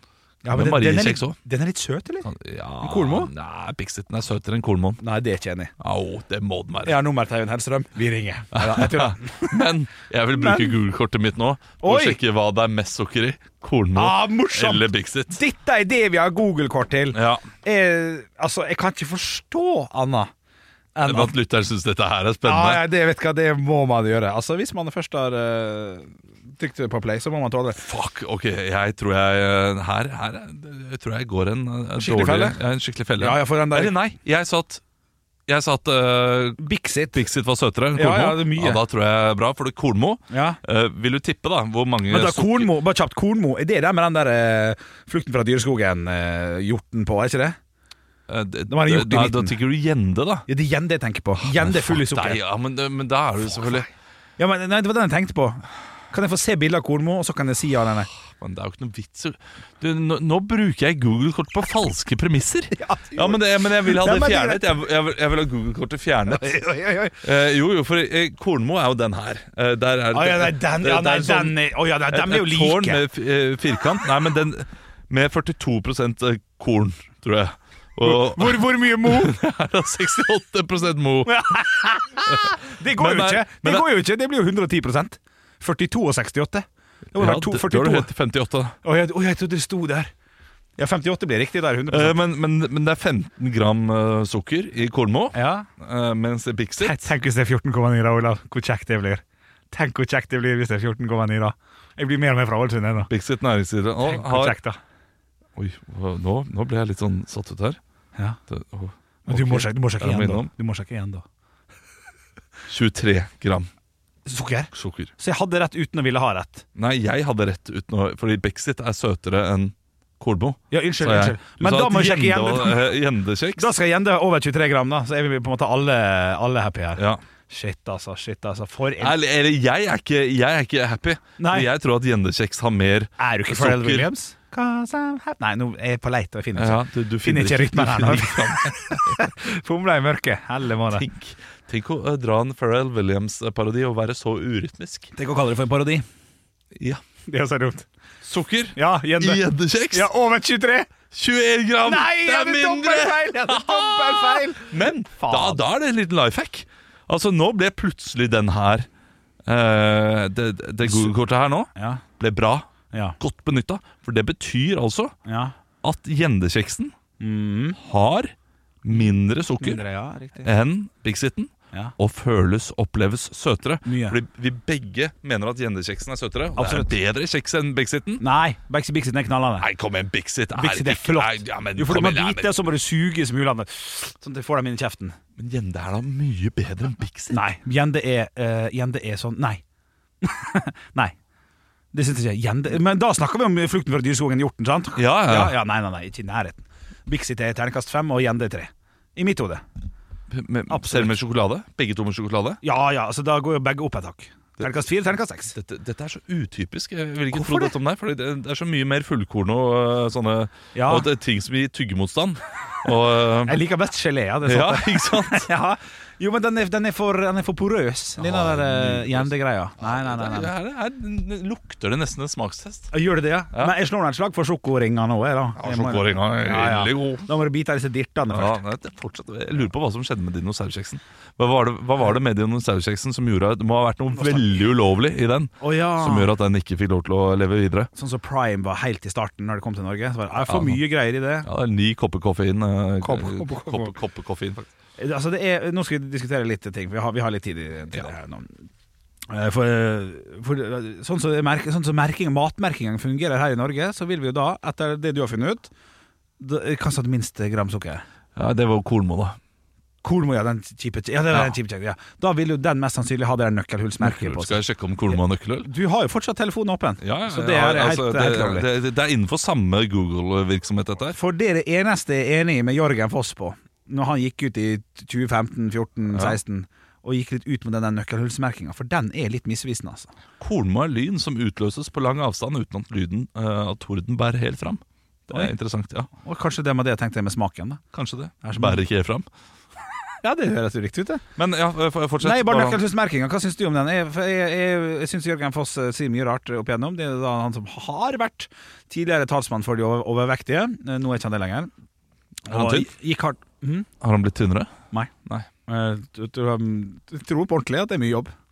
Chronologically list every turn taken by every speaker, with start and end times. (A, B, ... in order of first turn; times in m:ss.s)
0:00.4-0:02.3 A
0:00.5-0:01.4 B
0:02.2-0:05.0 B
0:02.8-0:03.3 A
0:05.0-0:05.7 A
0:05.8-0:07.0 B
0:06.8-0:09.6 A
0:08.5-0:15.4 B
0:10.3-0:10.7 A
0:11.8-0:12.2 A
0:13.9-0:20.3 A
0:17.1-0:17.4 B
0:21.0-0:21.3 A
0:21.0-0:22.8 B
0:22.4-0:27.8 A
0:27.8-0:34.8 B
0:32.0-0:32.6 A
0:33.2-0:33.9 A
0:35.5-0:36.6 B
0:36.6-0:37.2 A
0:37.1-0:42.7 B
0:38.0-0:38.8 A
0:40.3-0:40.6 A
0:42.1-0:47.6 A
0:48.3-0:50.5 B
0:48.7-0:49.6 A
0:50.5-0:52.4 A
0:51.4-0:53.9 B
0:54.4-0:58.1 A
0:58.4-1:06.6 B
1:02.8-1:04.8 A
1:06.4-1:07.2 A
1:07.2-1:21.6 B
1:10.1-1:13.0 A
1:18.0-1:19.4 A
1:21.2-1:28.1 A
1:22.3-1:23.9 B
1:27.2-1:28.8 B
1:28.8-1:30.1 A
1:30.8-1:32.2 A
1:31.9-1:37.1 B
1:35.3-1:35.7 A
1:36.8-1:43.1 A
1:43.1-1:44.6 B
1:44.0-1:44.8 A
1:45.6-1:47.8 B
1:48.5-1:50.5 B
1:49.3-1:51.2 A
1:52.7-1:53.7 B
1:54.2-1:56.6 A
1:54.7-1:55.1 B
1:56.8-2:03.7 B
2:00.7-2:03.0 A
2:03.6-2:09.1 A
2:09.0-2:14.1 B
2:11.4-2:11.7 A
2:13.2-2:21.0 A
2:16.5-2:19.3 B
2:20.9-2:25.1 B
2:25.2-2:26.0 A
2:26.8-2:27.0 B
2:27.3-2:27.8 A
2:28.2-2:30.1 B
2:28.7-2:30.9 A
2:31.1-2:38.9 B
2:31.8-2:35.6 A
2:39.4-2:45.1 B
2:40.8-2:41.1 A
2:41.7-2:42.0 A
2:45.2-2:45.5 A
2:45.8-2:46.9 B
2:47.2-2:47.8 A
2:47.8-2:48.3 B
2:48.8-2:49.8 B
2:48.9-2:50.5 A
2:50.4-2:58.2 B
2:53.8-2:54.2 A
2:56.6-2:56.9 A
2:58.2-2:59.6 A
2:59.6-3:02.5 B
3:00.5-3:05.2 A
3:05.4-3:07.4 B
3:07.3-3:09.6 A
3:10.2-3:11.1 A
3:11.9-3:19.6 A
3:15.0-3:15.6 B
3:20.3-3:22.6 B
3:20.7-3:21.2 A
3:22.6-3:25.5 A
3:25.5-3:33.6 B
3:27.3-3:27.7 A
3:30.7-3:31.1 A
3:33.4-3:40.5 A
3:34.4-3:35.4 B
3:38.2-3:42.9 B
3:42.9-3:48.6 A
3:45.6-3:47.3 B
3:48.3-3:57.9 B
3:54.1-3:54.6 A
3:55.6-3:56.3 A
3:57.9-4:01.5 A
4:00.4-4:00.8 B
4:01.4-4:04.7 B
4:03.0-4:04.0 A
4:05.0-4:08.6 A
4:09.3-4:15.7 A
4:16.4-4:18.0 A
4:18.4-4:19.4 B
4:20.0-4:28.7 A
4:24.0-4:25.7 B
4:27.0-4:31.2 B
4:31.1-4:40.1 A
4:40.4-4:46.1 B
4:46.1-4:47.8 A
4:47.9-4:49.2 B
4:48.4-4:48.8 A
4:50.2-4:51.2 A
4:51.4-4:52.8 B
4:52.2-5:01.7 A
5:02.4-5:03.9 A
5:02.5-5:02.9 B
5:04.0-5:04.7 B
5:05.7-5:08.3 A